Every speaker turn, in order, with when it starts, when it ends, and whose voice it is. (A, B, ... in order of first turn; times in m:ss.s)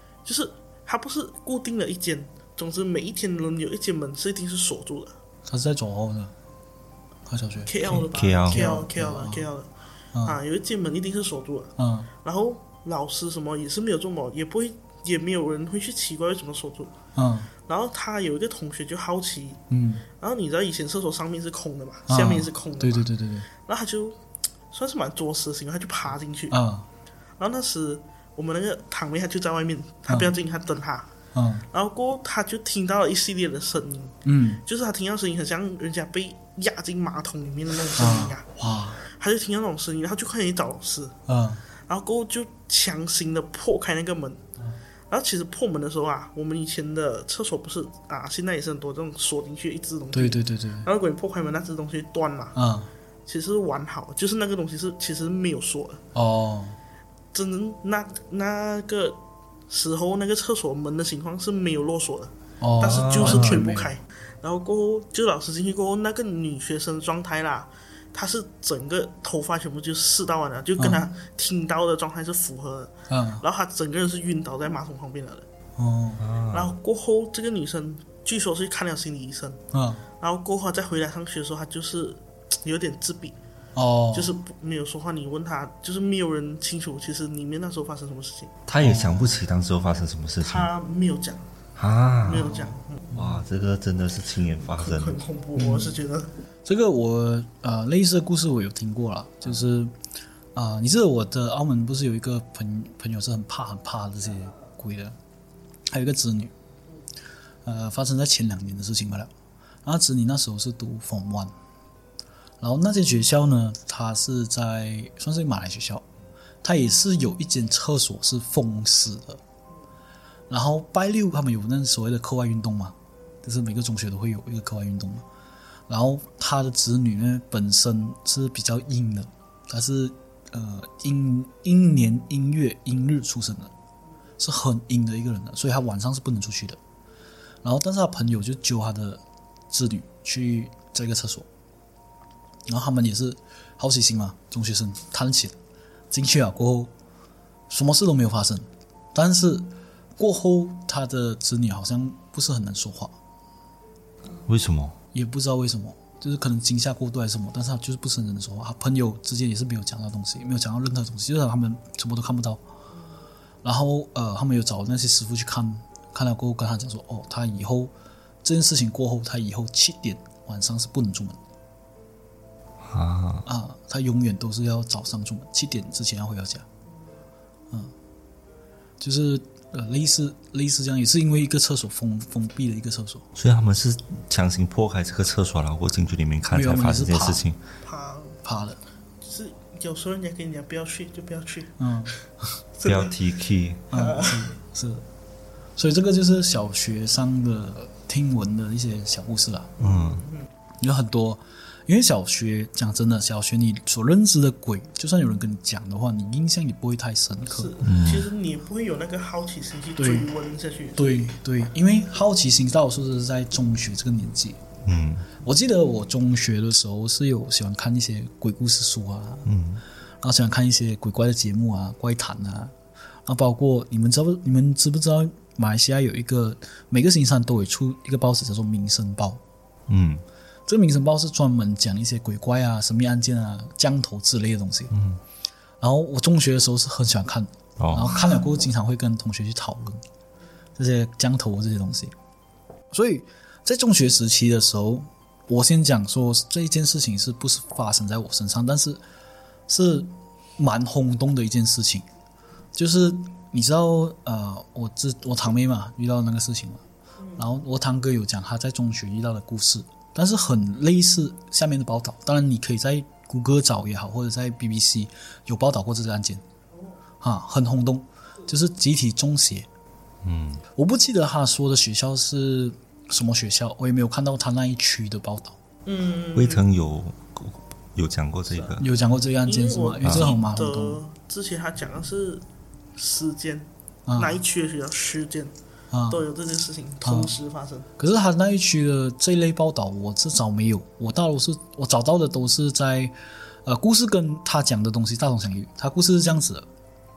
0:00.2-0:05.2 A
0:05.5-0:06.3 B
0:07.2-0:09.5 B
0:07.6-0:09.7 A
0:08.0-0:08.7 C
0:10.1-0:10.4 B
0:10.2-0:16.9 A
0:11.8-0:12.1 B
0:17.1-0:17.5 B
0:17.6-0:19.6 A
0:19.7-0:20.0 B
0:20.2-0:24.2 A
0:22.1-0:23.5 B
0:24.7-0:26.6 A
0:26.5-0:26.8 B
0:27.4-0:31.1 A
0:31.3-0:31.6 B
0:31.7-0:38.5 A
0:34.2-0:34.6 B
0:38.0-0:39.0 B
0:39.0-0:41.2 A
0:41.3-0:41.6 B
0:41.8-0:44.4 A
0:45.1-0:52.6 A
0:50.1-0:50.9 B
0:52.5-0:52.9 B
0:53.2-0:56.0 A
0:56.1-0:56.8 B
0:57.3-1:15.5 A
1:02.6-1:03.9 B
1:02.8-1:03.6 C
1:13.1-1:13.4 B
1:15.8-1:16.2 B
1:16.2-1:16.7 C
1:16.5-1:19.6 A
1:19.7-1:20.0 B
1:20.2-1:23.4 A
1:23.8-1:24.3 B
1:24.1-1:28.5 A
1:28.7-1:30.7 C
1:28.8-1:29.4 B
1:30.4-1:31.4 A
1:31.8-1:35.2 C
1:32.2-1:33.2 A
1:34.7-1:36.3 A
1:35.6-1:36.0 B
1:36.6-1:39.9 B
1:40.5-1:45.2 B
1:45.9-1:46.5 B
1:47.6-1:49.3 B
1:49.8-1:51.5 B
1:52.6-1:56.0 B
1:56.6-1:59.4 B
2:00.5-2:05.2 B
2:05.9-2:13.7 B
2:14.4-2:16.8 B
2:17.6-2:21.5 B
2:22.7-2:25.5 B
2:26.1-2:26.9 B
2:27.7-2:33.2 B
2:34.4-2:35.0 C
2:35.1-2:42.6 B
2:43.6-2:47.9 B
2:48.4-2:51.4 B
2:52.8-2:53.4 C
2:53.4-2:56.6 B
2:59.0-3:03.2 B
3:03.4-3:07.6 C
3:06.5-3:07.4 B
3:07.8-3:08.4 A
3:08.4-3:08.8 B
3:09.2-3:12.2 A
3:11.8-3:12.1 B
3:12.8-3:13.1 A
3:12.8-3:13.9 C
3:13.9-3:15.0 B
3:13.9-3:14.5 A
3:15.8-3:19.8 B
3:19.8-3:20.2 C
3:19.8-3:20.5 A
3:20.8-3:27.8 B
3:27.4-3:31.3 A
3:27.8-3:28.3 C
3:30.0-3:30.3 B
3:31.0-3:34.6 B
3:34.8-3:35.3 C
3:35.4-3:39.5 B
3:39.4-3:39.8 C
3:40.2-3:42.7 B
3:43.2-3:49.4 B
3:49.9-3:50.2 C
3:50.7-3:54.9 B
3:54.9-3:55.2 C
3:55.8-4:00.0 B
3:57.8-3:58.2 C
4:00.8-4:02.1 B
4:02.9-4:09.0 B
4:09.7-4:12.0 B
4:12.7-4:16.8 B
4:17.4-4:26.4 B
4:27.2-4:29.7 B
4:30.2-4:30.6 C
4:30.7-4:35.6 B
4:35.8-4:36.6 A
4:36.3-4:38.8 C
4:38.8-4:41.0 B
4:39.4-4:42.4 A
4:40.0-4:40.3 C
4:43.0-4:45.5 A
4:44.1-4:44.4 B
4:45.9-4:46.2 B
4:46.1-4:47.9 A
4:47.0-4:47.3 B
4:48.0-4:53.1 B
4:53.6-4:56.6 B